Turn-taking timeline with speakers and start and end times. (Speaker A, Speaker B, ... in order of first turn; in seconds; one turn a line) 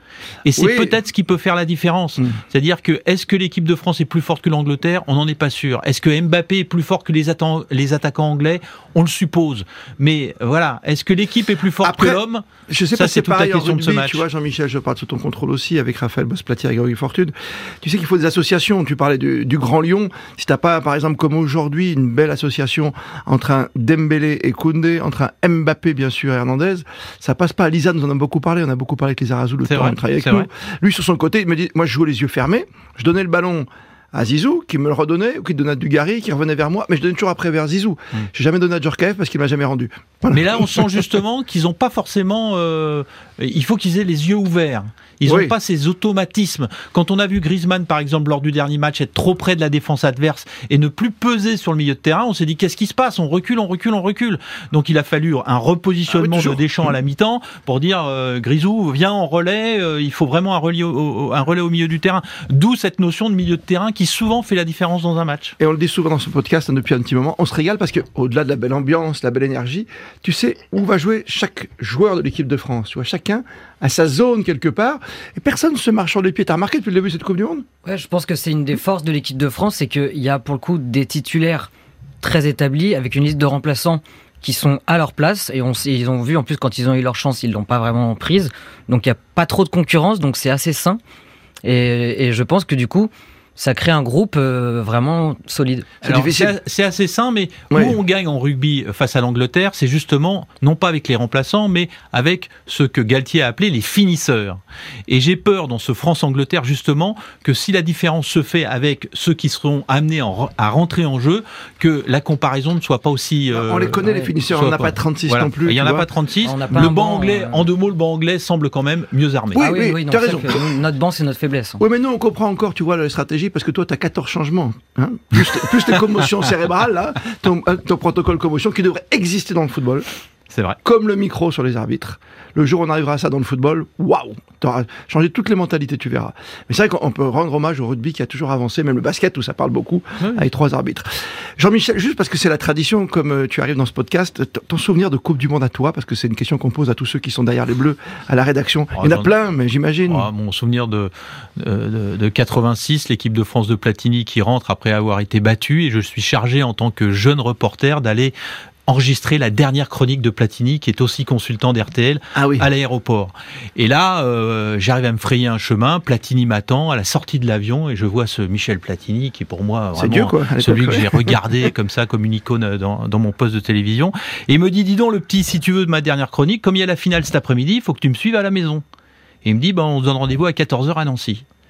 Speaker A: 0.4-14.2
Speaker B: 0.6-0.9
Speaker B: 11.8-41.0
Speaker A: 29.6-30.5
Speaker A: 40.3-65.5
Speaker B: 45.2-45.5
Speaker B: 56.1-56.6
Speaker B: 65.6-77.6
Speaker C: 77.8-81.7
Speaker C: 82.2-91.0
Speaker C: 91.6-95.9
Speaker B: 96.0-96.5
Speaker A: 96.0-119.6
Speaker B: 97.7-98.0
Speaker B: 113.5-116.1
Speaker C: 116.4-117.7
Speaker B: 119.5-120.7
Speaker C: 119.6-121.8
Speaker B: 121.8-130.1
Speaker A: 130.5-130.8
Speaker B: 130.8-150.3
Speaker A: 148.9-149.3
Speaker A: 150.1-158.3
Speaker A: 158.9-178.8
Speaker B: 162.3-162.7
Speaker B: 169.9-171.4
Speaker A: 179.4-181.4